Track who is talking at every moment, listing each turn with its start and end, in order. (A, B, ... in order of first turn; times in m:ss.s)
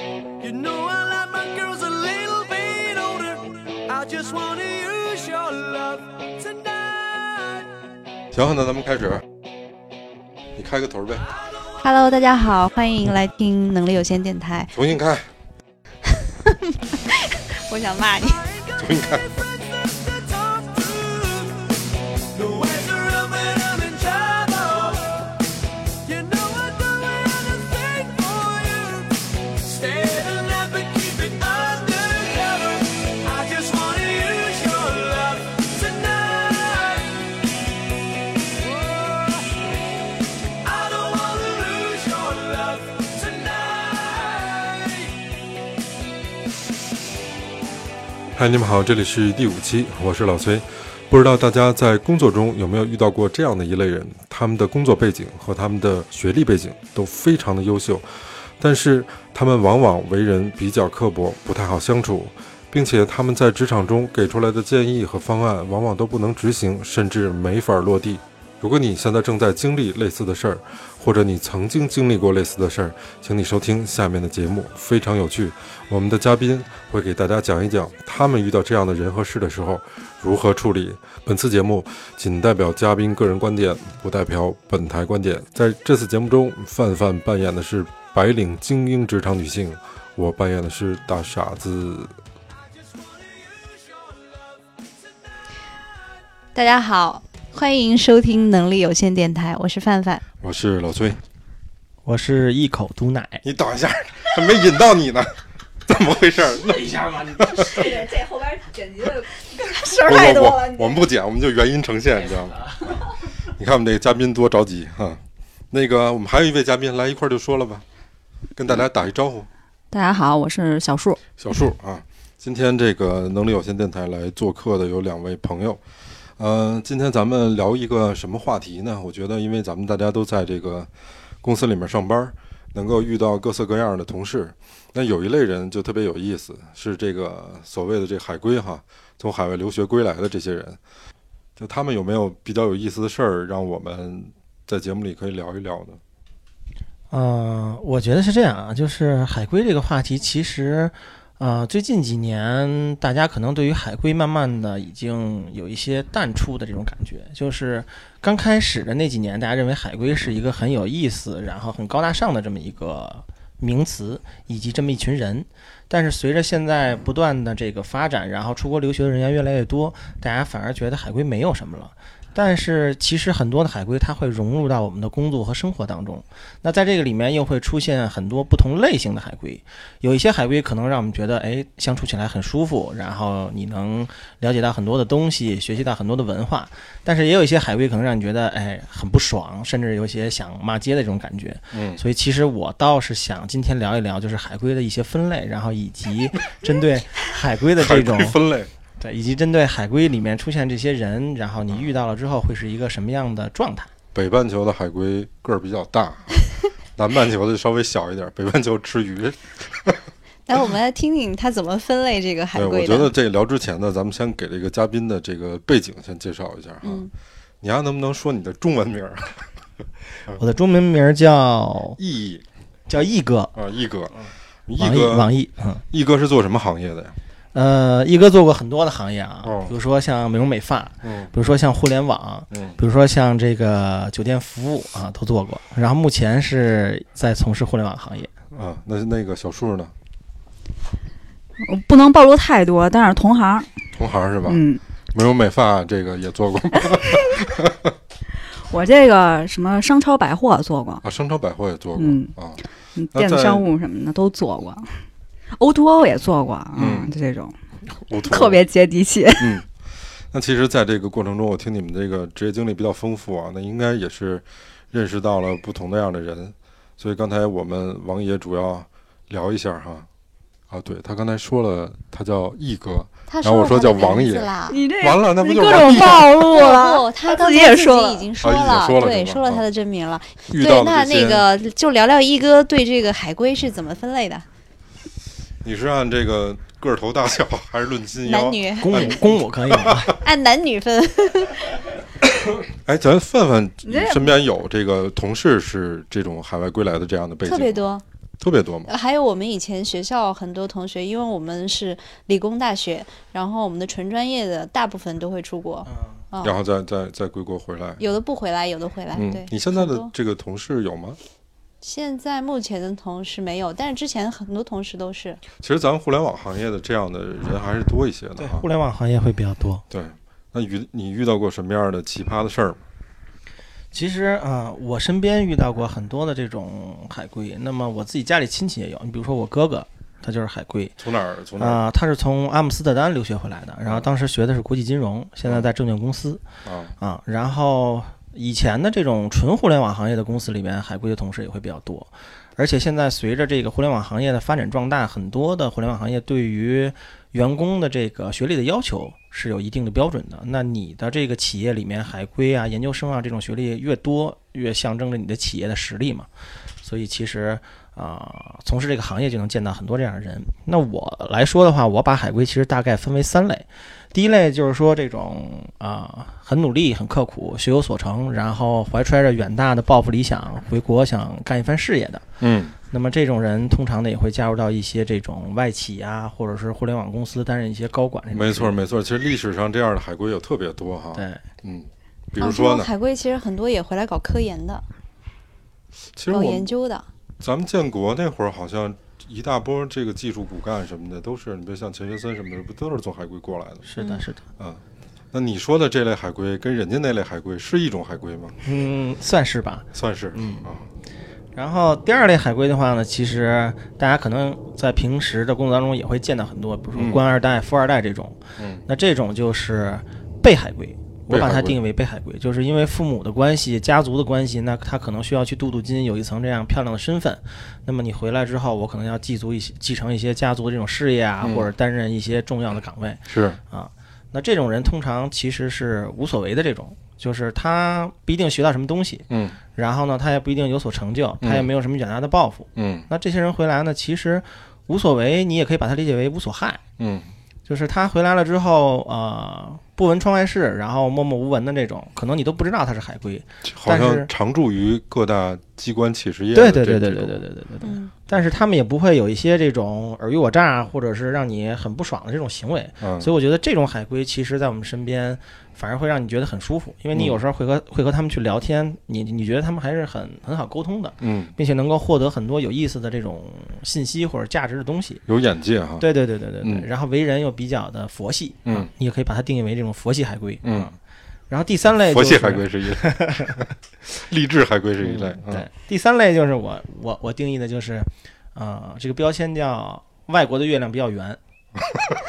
0:00.4-0:07.6 A
0:08.3-0:09.2 B
0:10.6-0:11.2 B
0:11.8-0:14.7 C
0:14.7-0:15.3 B
0:16.1-0:18.4 C
0:18.2-0:25.4 A
0:18.8-0:19.4 B
0:26.0-0:37.3 A
0:38.6-0:39.7 A
0:40.6-0:45.1 A
0:48.3-0:58.0 B
0:58.6-1:32.1 B
1:33.0-1:34.6 A
1:36.5-1:40.2 C
1:40.4-1:41.2 B
1:42.0-1:43.4 D
1:43.4-1:48.1 B
1:47.5-1:51.0 E
1:50.0-1:52.8 B
1:53.5-1:57.8 B
1:58.5-1:59.5 B
1:59.9-2:01.2 E
2:01.4-2:05.8 B
2:06.4-2:10.9 B
2:11.4-2:20.8 B
2:21.6-2:26.0 B
2:27.1-3:18.4 D
3:11.7-3:12.0 B
3:17.8-3:18.7 B
3:19.0-3:23.9 D
3:24.1-3:26.4 B
3:27.0-3:30.0 B
3:30.5-3:33.1 C
3:32.5-3:37.1 B
3:36.8-3:37.1 C
3:37.6-3:39.5 B
3:40.4-3:42.0 D
3:42.0-3:42.4 B
3:42.9-3:43.5 D
3:43.5-3:44.2 B
3:44.7-3:45.3 B
3:44.8-3:45.8 D
3:45.9-3:47.2 B
3:47.5-3:58.3 D
3:49.4-3:49.7 B
3:51.0-3:51.3 B
3:52.5-3:52.8 B
3:58.5-3:59.9 B
4:01.6-4:03.7 E
4:03.9-4:07.9 B
4:04.4-4:04.8 E
4:07.1-4:07.4 E
4:08.7-4:11.0 E
4:11.0-4:13.6 B
4:12.0-4:12.3 E
4:13.0-4:15.0 E
4:15.6-4:17.5 E
4:16.8-4:17.1 B
4:17.9-4:18.6 B
4:18.2-4:19.6 E
4:19.4-4:19.7 B
4:20.3-4:30.1 B
4:30.7-4:36.4 B
4:33.3-4:34.8 C
4:34.7-4:38.3 E
4:36.3-4:44.4 C
4:38.4-4:39.6 B
4:40.5-4:41.5 B
4:45.6-4:50.2 B
4:48.2-4:49.1 C
4:48.8-4:50.1 D
4:50.2-4:51.7 C
4:52.4-4:57.9 B
4:53.8-4:54.4 E
4:57.4-4:58.0 C
4:58.4-4:58.9 B
4:58.9-5:06.5 C
5:05.8-5:06.2 D
5:06.4-5:08.0 B
5:08.0-5:10.1 C
5:09.1-5:11.2 B
5:11.8-5:15.4 C
5:15.6-5:18.7 B
5:18.4-5:19.8 D
5:19.9-5:22.8 B
5:23.9-5:31.0 D
5:31.0-5:31.8 B
5:31.6-5:36.4 D
5:36.6-5:36.9 B
5:37.0-5:56.3 D
5:56.8-6:12.2 D
6:12.4-6:12.7 B
6:12.9-6:18.8 D
6:18.3-6:22.9 B
6:21.1-6:21.4 D
6:22.4-6:24.8 C
6:26.2-6:26.7 B
6:26.3-6:27.1 C
6:27.4-6:33.9 B
6:33.8-6:34.4 D
6:34.6-6:38.6 B
6:38.6-6:40.6 D
6:39.9-6:40.9 B
6:41.5-7:16.8 D
6:47.0-6:47.2 B
6:48.6-6:48.8 B
6:51.3-6:51.8 B
7:01.4-7:01.7 B
7:03.3-7:03.6 B
7:09.3-7:09.6 B
7:11.4-7:11.7 B
7:12.8-7:13.1 B
7:17.0-7:17.3 B
7:17.7-7:24.3 D
7:23.6-7:27.4 B
7:26.5-7:45.2 D
7:27.8-7:28.1 C
7:33.0-7:33.3 B
7:41.2-7:41.5 B
7:45.3-7:46.0 B
7:46.0-7:51.0 D
7:46.6-7:46.9 B
7:50.6-7:50.9 B
7:51.5-7:53.6 D
7:52.0-7:55.6 B
7:55.0-8:01.4 D